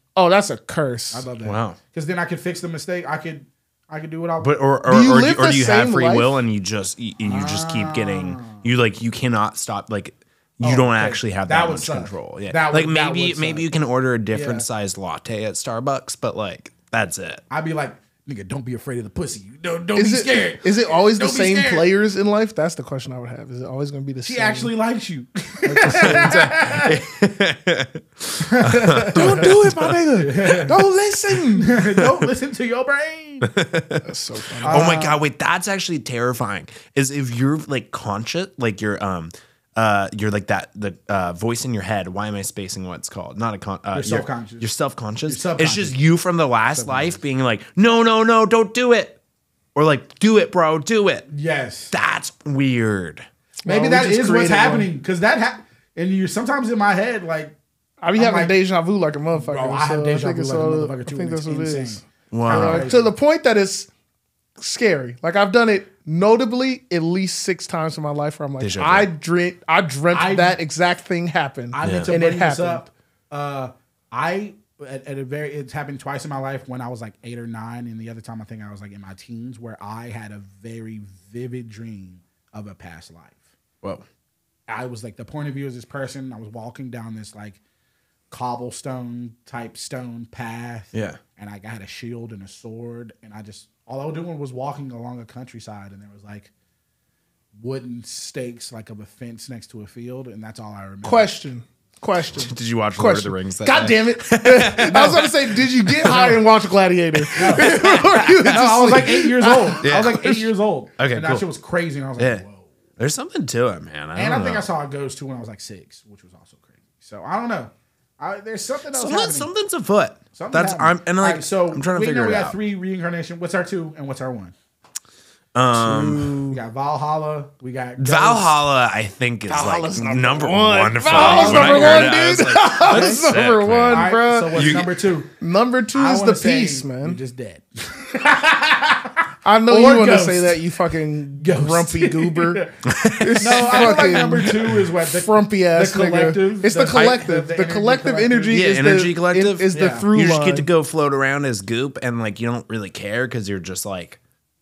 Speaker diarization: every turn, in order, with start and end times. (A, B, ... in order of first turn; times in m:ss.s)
0:00.1-0:01.3 A
0:01.1-0:04.5 B
0:01.4-0:01.8 C
0:04.4-0:17.4 C
0:04.8-0:06.4 A
0:07.2-0:08.6 B
0:10.6-0:13.8 B
0:14.3-0:14.6 B
0:17.5-0:21.9 B
0:20.0-0:24.7 A
0:24.3-0:27.0 B
0:25.6-0:26.5 A
0:26.1-0:30.0 C
0:28.4-0:29.6 B
0:29.0-0:31.8 A
0:30.2-0:30.8 B
0:31.5-0:33.5 B
0:33.4-0:34.0 C
0:34.0-0:35.0 A
0:34.6-0:49.2 C
0:34.6-0:35.2 B
0:43.9-0:44.7 B
0:45.2-0:46.0 B
0:46.8-0:47.1 B
0:49.7-0:51.2 C
0:51.3-0:51.9 B
0:51.9-0:53.3 C
0:53.6-0:54.9 A
0:53.6-0:57.5 B
0:58.0-1:03.9 A
0:58.1-0:58.5 B
0:59.3-1:03.1 B
1:02.3-1:02.9 C
1:04.6-1:12.9 A
1:08.6-1:09.1 C
1:10.1-1:10.6 B
1:11.7-1:23.4 B
1:11.8-1:12.1 C
1:24.7-1:27.6 B
1:28.3-1:36.5 B
1:30.9-1:31.2 C
1:37.6-1:41.3 B
1:41.0-1:50.4 A
1:42.3-1:46.4 C
1:44.9-1:45.2 B
1:47.2-1:48.6 C
1:47.3-1:52.6 B
1:49.8-1:50.4 C
1:51.0-1:51.4 C
1:52.2-1:52.4 C
1:53.0-1:54.6 C
1:54.2-1:59.5 B
1:58.9-2:02.6 C
2:00.3-2:04.5 B
2:05.5-2:06.3 C
2:05.7-2:06.6 A
2:06.5-2:08.6 B
2:08.0-2:14.9 C
2:09.5-2:14.8 A
2:11.1-2:13.3 B
2:13.9-2:15.3 B
2:15.4-2:17.2 A
2:15.9-2:20.6 B
2:19.4-2:30.7 A
2:21.4-2:22.7 B
2:22.8-2:24.6 C
2:23.4-2:28.7 B
2:28.5-2:34.2 C
2:29.7-2:30.0 B